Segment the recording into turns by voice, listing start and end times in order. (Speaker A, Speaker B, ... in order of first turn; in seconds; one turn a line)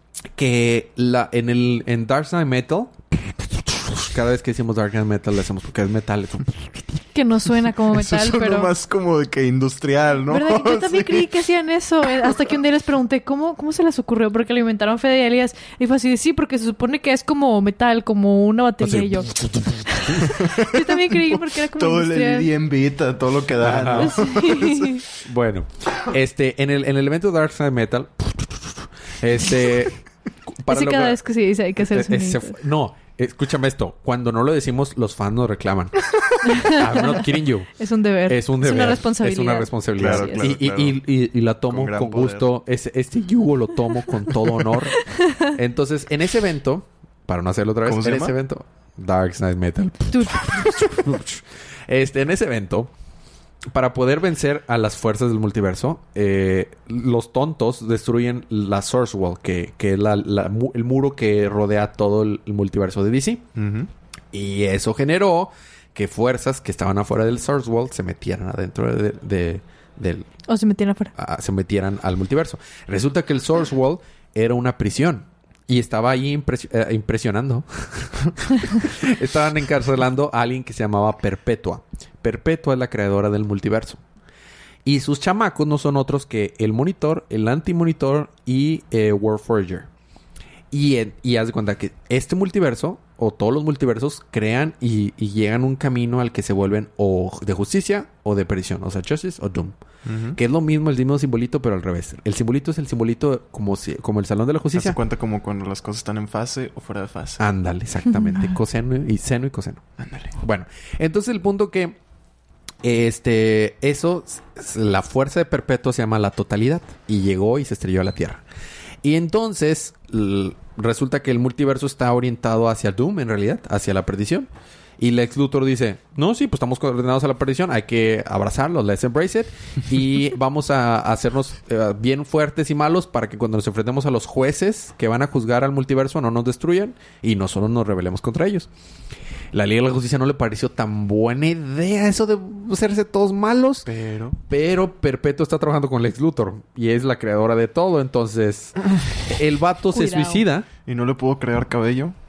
Speaker A: 0.4-7.1
Speaker B: 7.2-8.7
Speaker C: 7.9-11.3
Speaker B: 10.3-22.5
Speaker A: 18.8-20.4
Speaker C: 20.3-25.0
Speaker A: 23.6-24.2
Speaker B: 23.9-25.1
Speaker A: 25.2-31.2
Speaker B: 30.7-32.6
Speaker A: 31.8-37.7
Speaker B: 36.4-37.2
Speaker B: 37.8-40.5
Speaker A: 38.3-52.9
Speaker C: 40.0-41.0
Speaker C: 41.7-42.5
Speaker B: 45.1-45.5
Speaker C: 47.8-48.4
Speaker B: 50.1-51.1
Speaker A: 53.7-63.4
Speaker C: 63.6-63.9
Speaker A: 64.3-70.3
Speaker B: 70.5-71.1
Speaker A: 71.2-84.0
Speaker A: 84.8-89.9
Speaker A: 90.7-99.8
Speaker C: 100.0-100.4
Speaker A: 100.3-105.0
Speaker C: 104.7-107.5
Speaker A: 107.4-109.8
Speaker B: 108.2-108.5
Speaker C: 110.0-110.3
Speaker A: 110.4-112.0
Speaker A: 112.8-118.4
Speaker A: 119.0-124.5
Speaker A: 125.0-138.7
Speaker A: 139.5-150.7
Speaker C: 143.9-144.4
Speaker B: 149.9-150.5
Speaker C: 150.9-152.1